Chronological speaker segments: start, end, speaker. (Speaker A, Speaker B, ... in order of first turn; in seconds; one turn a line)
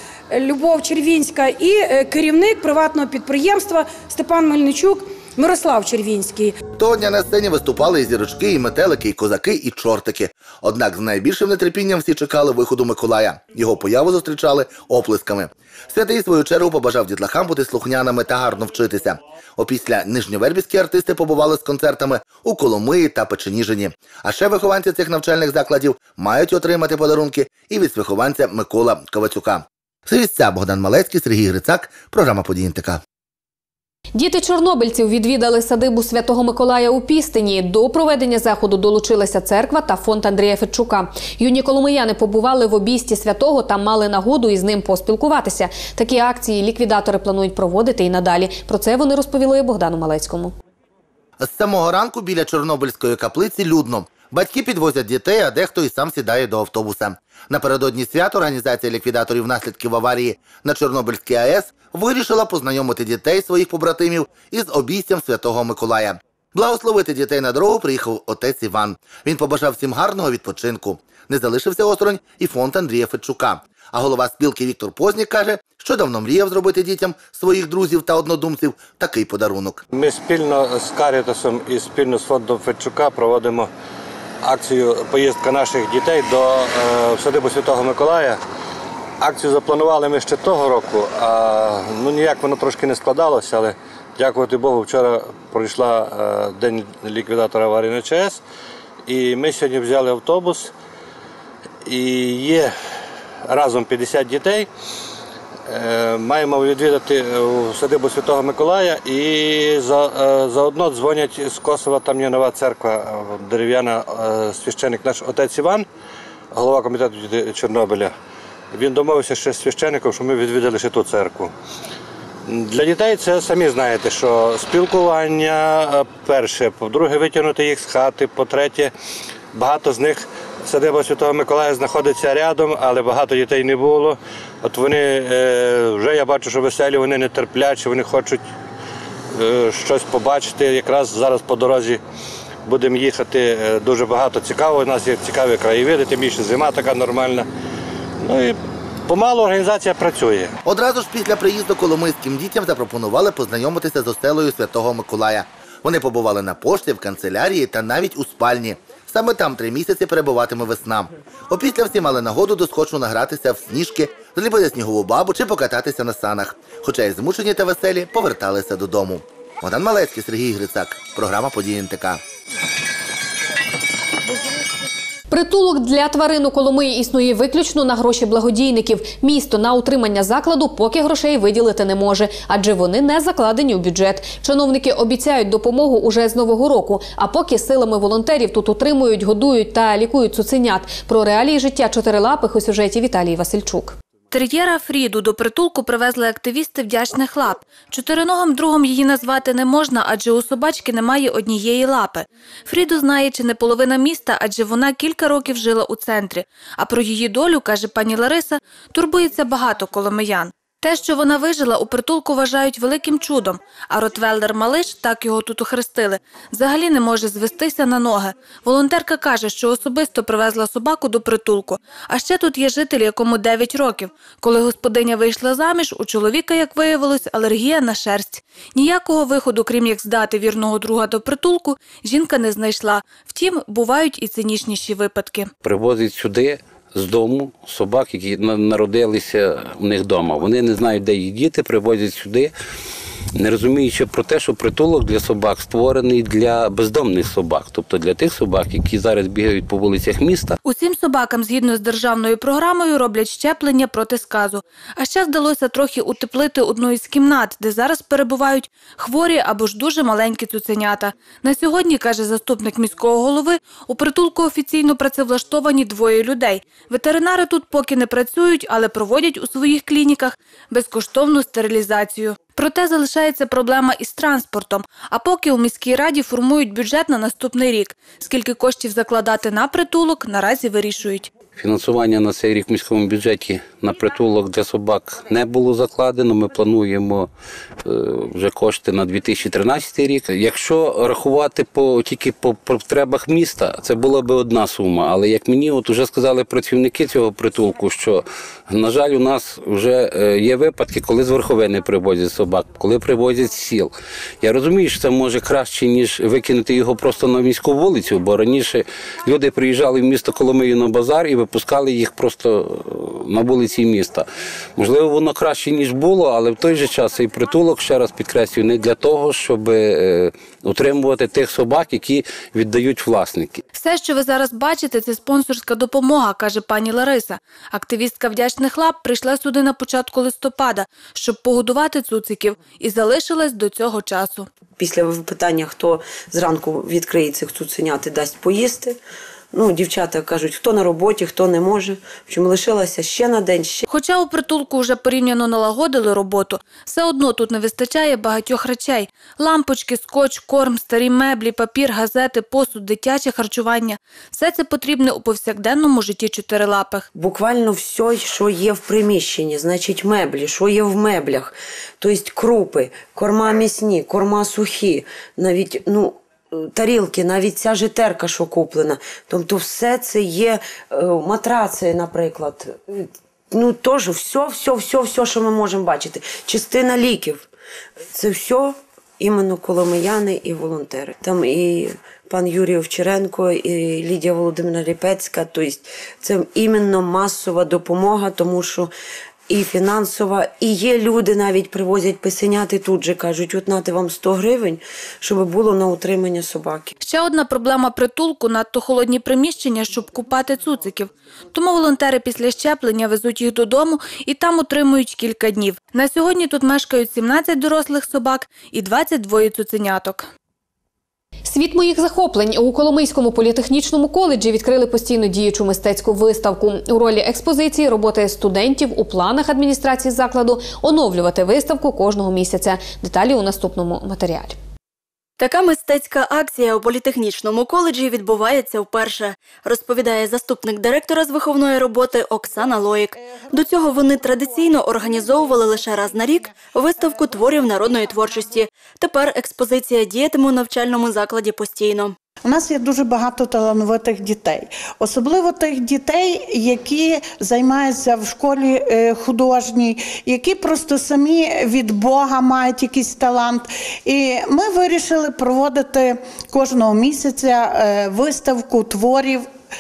Speaker A: 0.3-6.6
Speaker B: 6.8-33.0
Speaker C: 34.1-50.5
Speaker B: 51.4-79.8
Speaker D: 79.9-83.7
Speaker D: 84.4-88.4
Speaker D: 89.2-98.4
Speaker D: 99.1-100.7
Speaker D: 101.8-102.7
Speaker D: 103.5-104.7
Speaker D: 105.7-115.8
Speaker D: 116.5-118.1
Speaker D: 118.7-121.5
Speaker D: 122.5-128.9
Speaker D: 129.5-138.4
Speaker D: 139.3-142.0
Speaker D: 142.7-147.5
Speaker D: 148.2-150.5
Speaker B: 150.6-172.2
Speaker C: 175.3-194.0
Speaker E: 194.3-235.5
Speaker F: 235.6-242.5
Speaker F: 243.3-250.6
Speaker E: 250.6-281.3
Speaker F: 281.5-287.3
Speaker F: 287.8-314.2
Speaker F: 314.8-323.6
Speaker E: 323.7-334.5
Speaker G: 334.8-339.0
Speaker G: 339.5-343.8
Speaker E: 343.9-357.1
Speaker G: 357.1-377.5
Speaker G: 378.1-388.9
Speaker G: 389.5-396.9
Speaker E: 397.0-410.3
Speaker C: 411.4-424.6
Speaker H: 425.4-442.1
Speaker I: 442.4-459.5